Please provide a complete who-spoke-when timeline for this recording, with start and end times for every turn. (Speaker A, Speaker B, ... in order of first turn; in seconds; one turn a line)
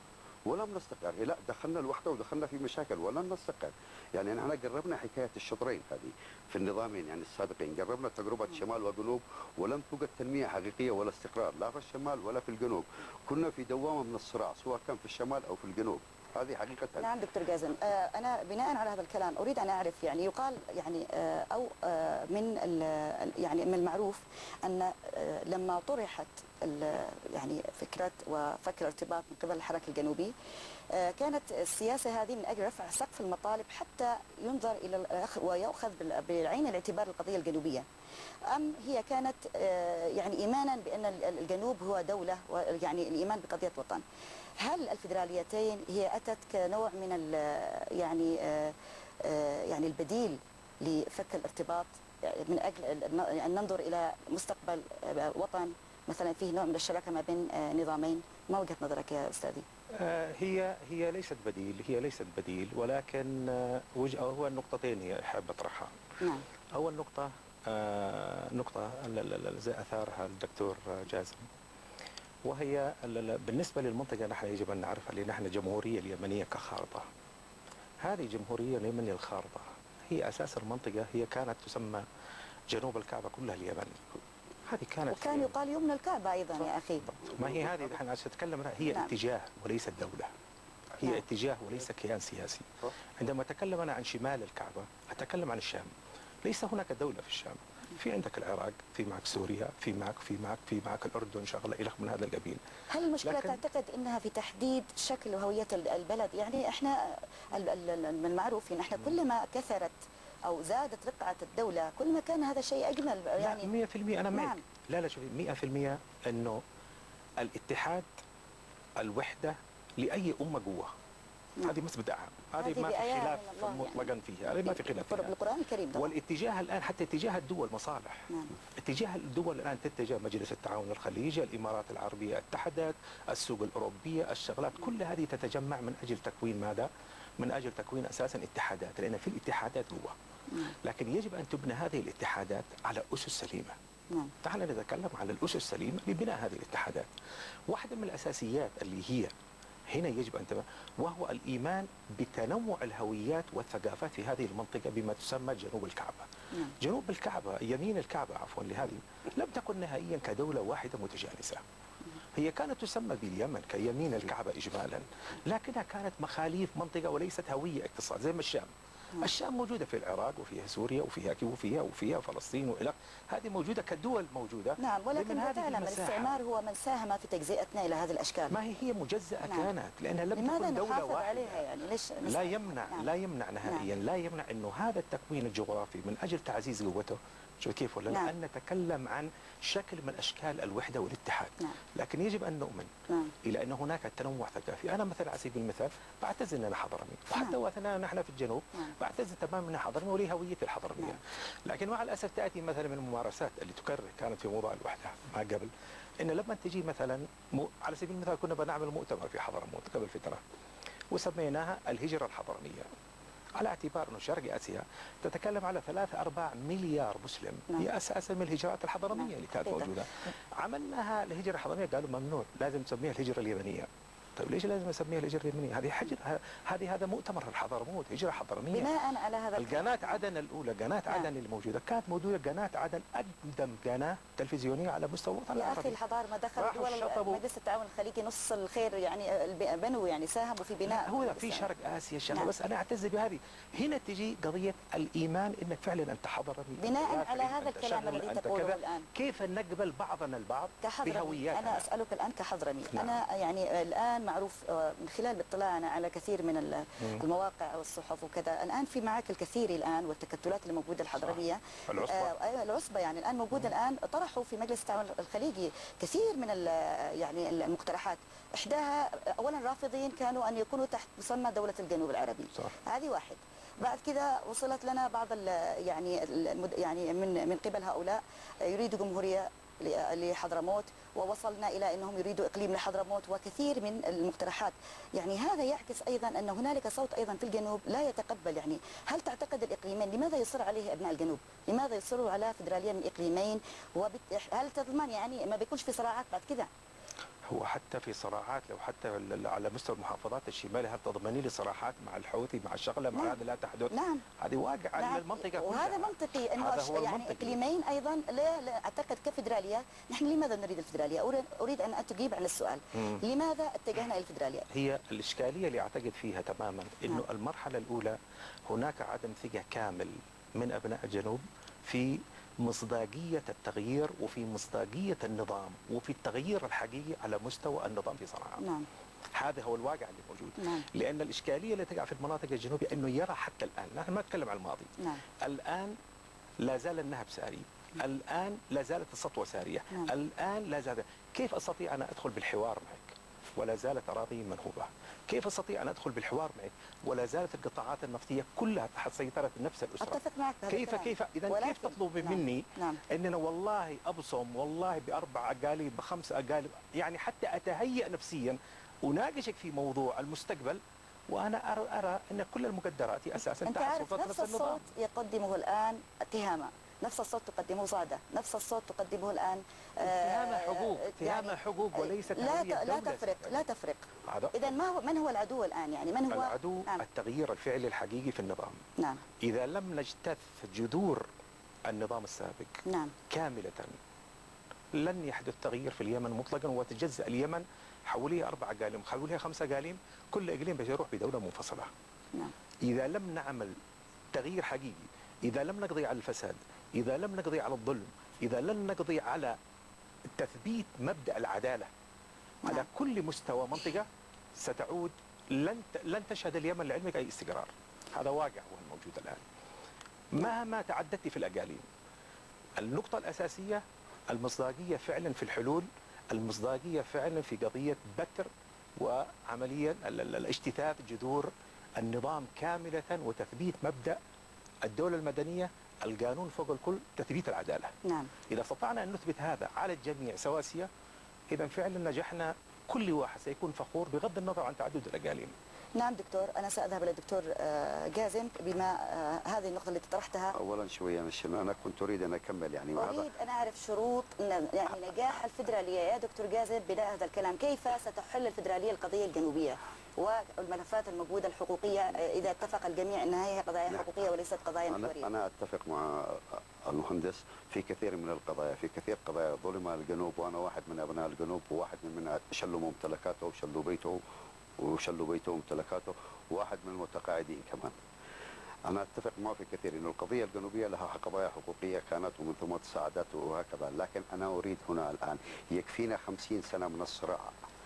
Speaker A: 0.5-17.1
Speaker B: 17.0-30.3
Speaker B: 30.9-37.9
Speaker B: 38.5-44.0
Speaker B: 44.6-59.6
Speaker C: 59.9-66.0
Speaker C: 66.7-71.5
Speaker C: 72.4-77.0
Speaker C: 78.0-82.0
Speaker C: 82.7-84.0
Speaker C: 84.7-85.5
Speaker B: 85.1-87.0
Speaker C: 87.0-90.3
Speaker C: 91.0-95.9
Speaker C: 96.4-102.6
Speaker B: 102.9-113.7
Speaker C: 103.2-103.6
Speaker C: 113.4-116.6
Speaker B: 114.3-114.6
Speaker C: 117.4-118.1
Speaker C: 119.0-120.9
Speaker C: 121.6-125.3
Speaker B: 122.6-124.1
Speaker B: 124.6-126.1
Speaker C: 125.9-140.1
Speaker C: 140.8-143.8
Speaker C: 144.4-147.1
Speaker C: 147.7-149.3
Speaker C: 149.9-161.6
Speaker C: 162.3-176.3
Speaker B: 174.8-178.6
Speaker C: 178.5-181.6
Speaker B: 180.3-183.1
Speaker C: 182.2-192.9
Speaker B: 193.1-193.3
Speaker C: 193.4-210.4
Speaker C: 211.1-212.9
Speaker C: 213.6-228.9
Speaker B: 219.1-219.9
Speaker B: 228.7-230.2
Speaker C: 229.6-236.0
Speaker B: 235.6-241.7
Speaker C: 236.6-237.4
Speaker C: 240.8-251.9
Speaker B: 246.8-249.1
Speaker B: 250.8-296.7
Speaker C: 252.9-253.2
Speaker C: 261.2-262.3
Speaker C: 297.4-307.6
Speaker B: 303.9-304.2
Speaker B: 305.0-314.6
Speaker C: 314.7-318.2
Speaker C: 318.7-328.6
Speaker B: 328.6-328.9
Speaker C: 329.3-336.0
Speaker B: 330.6-330.9
Speaker C: 336.6-364.8
Speaker B: 350.0-353.0
Speaker B: 363.6-377.0
Speaker C: 370.0-373.6
Speaker C: 374.2-374.7
Speaker C: 376.3-378.8
Speaker B: 379.0-379.2
Speaker C: 379.4-381.3
Speaker C: 381.9-383.9
Speaker B: 382.9-383.1
Speaker C: 384.9-391.9
Speaker C: 392.8-393.8
Speaker C: 394.3-399.6
Speaker C: 400.3-401.9
Speaker C: 402.7-409.4
Speaker C: 410.3-411.8
Speaker C: 412.8-424.2
Speaker C: 424.8-427.9
Speaker B: 428.0-428.3
Speaker C: 428.5-430.9
Speaker C: 431.5-435.5
Speaker B: 436.0-440.6
Speaker A: 440.5-443.3
Speaker B: 443.0-455.3
Speaker A: 454.9-464.2
Speaker A: 464.8-467.9
Speaker A: 468.9-477.6